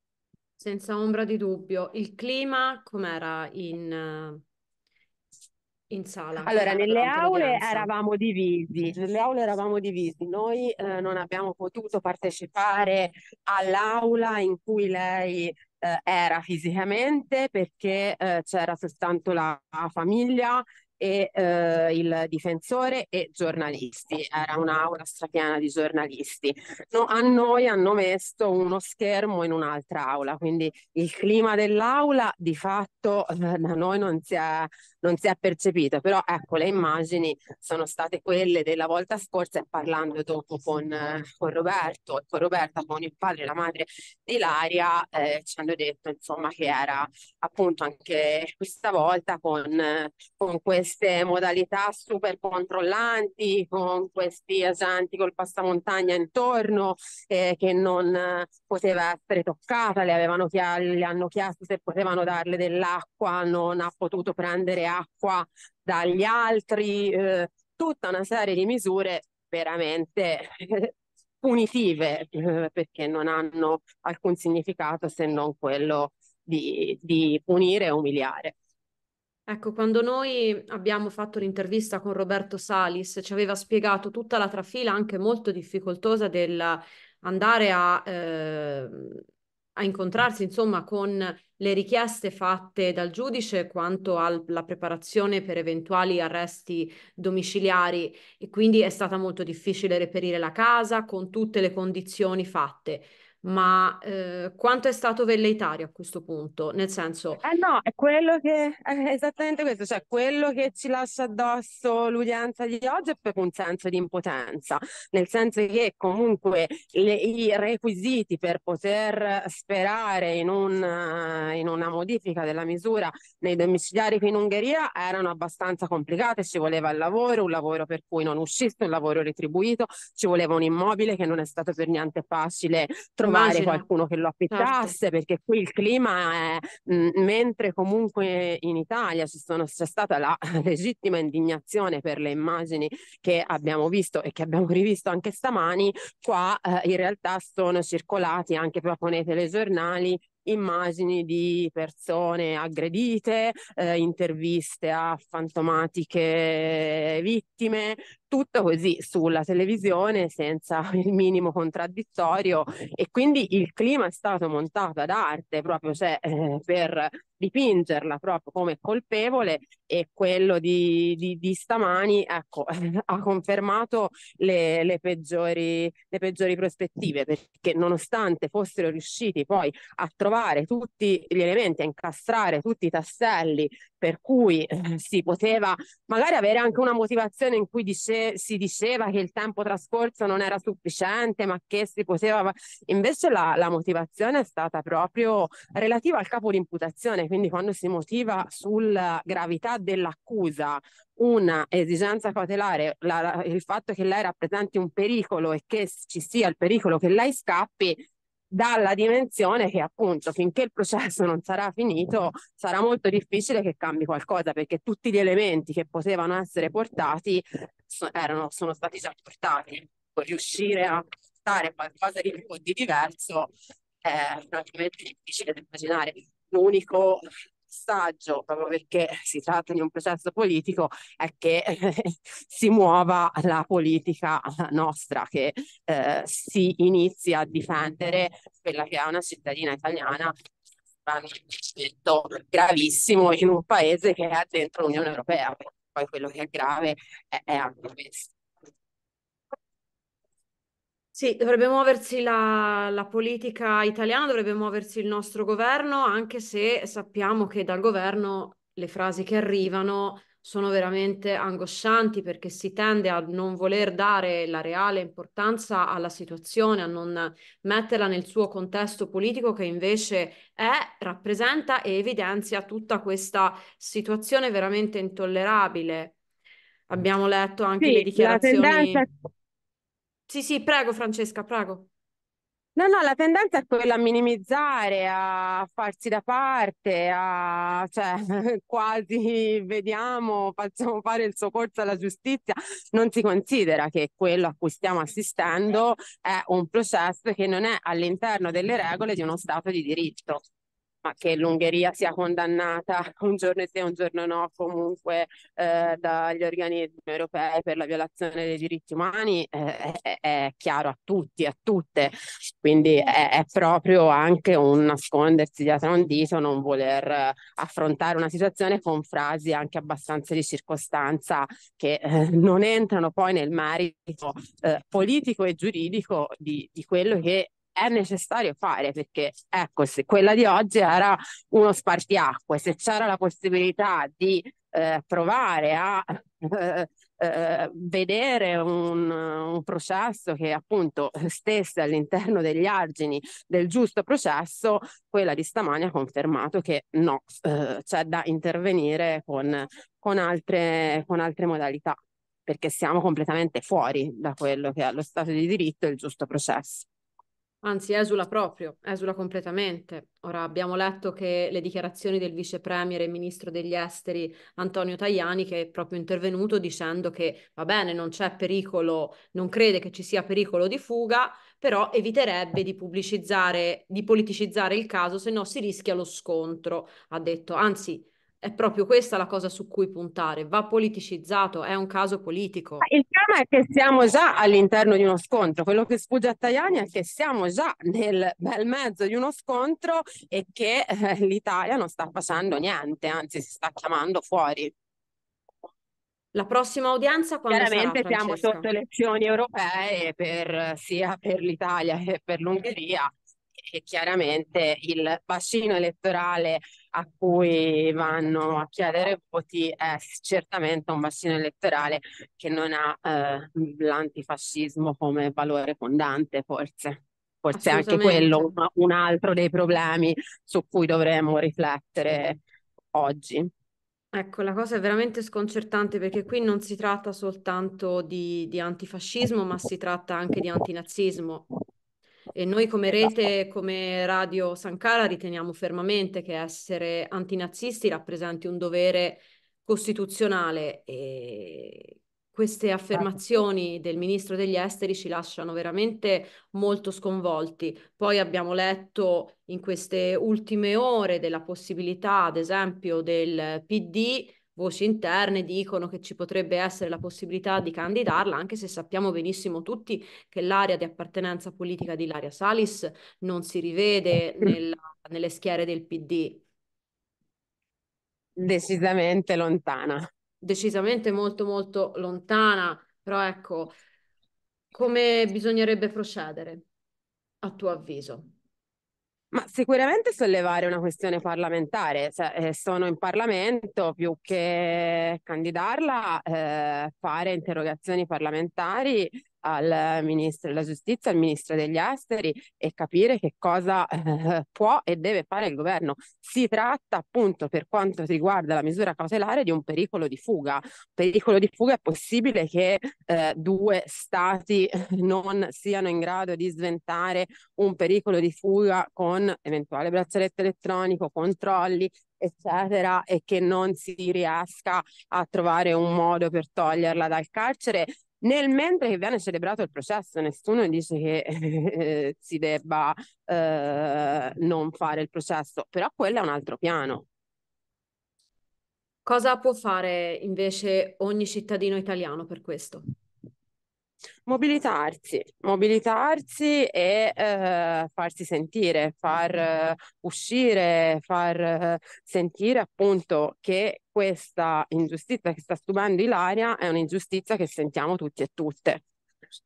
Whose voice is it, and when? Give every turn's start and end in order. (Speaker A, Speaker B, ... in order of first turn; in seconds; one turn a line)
Speaker A: 0.6-4.4
Speaker A: 5.9-7.9
Speaker B: 6.4-78.5
Speaker A: 79.5-89.2
Speaker A: 89.8-107.4
Speaker B: 107.4-223.5
Speaker A: 133.2-133.8
Speaker A: 134.5-134.9
Speaker B: 224.0-240.3
Speaker B: 241.0-248.3
Speaker A: 251.1-276.1
Speaker A: 276.9-279.1
Speaker B: 277.8-279.1
Speaker A: 280.3-281.9
Speaker B: 282.8-300.4
Speaker B: 301.0-356.9
Speaker A: 357.6-382.9
Speaker B: 382.8-394.7
Speaker A: 396.3-398.7
Speaker B: 397.5-403.1
Speaker B: 403.6-422.4
Speaker A: 417.5-418.5
Speaker B: 422.9-423.5
Speaker A: 424.1-431.5
Speaker A: 432.3-466.4
Speaker B: 468.4-470.0
Speaker A: 470.4-473.8
Speaker A: 474.7-476.6
Speaker A: 477.4-478.3
Speaker B: 479.3-527.0
Speaker A: 529.0-532.8
Speaker B: 534.3-548.8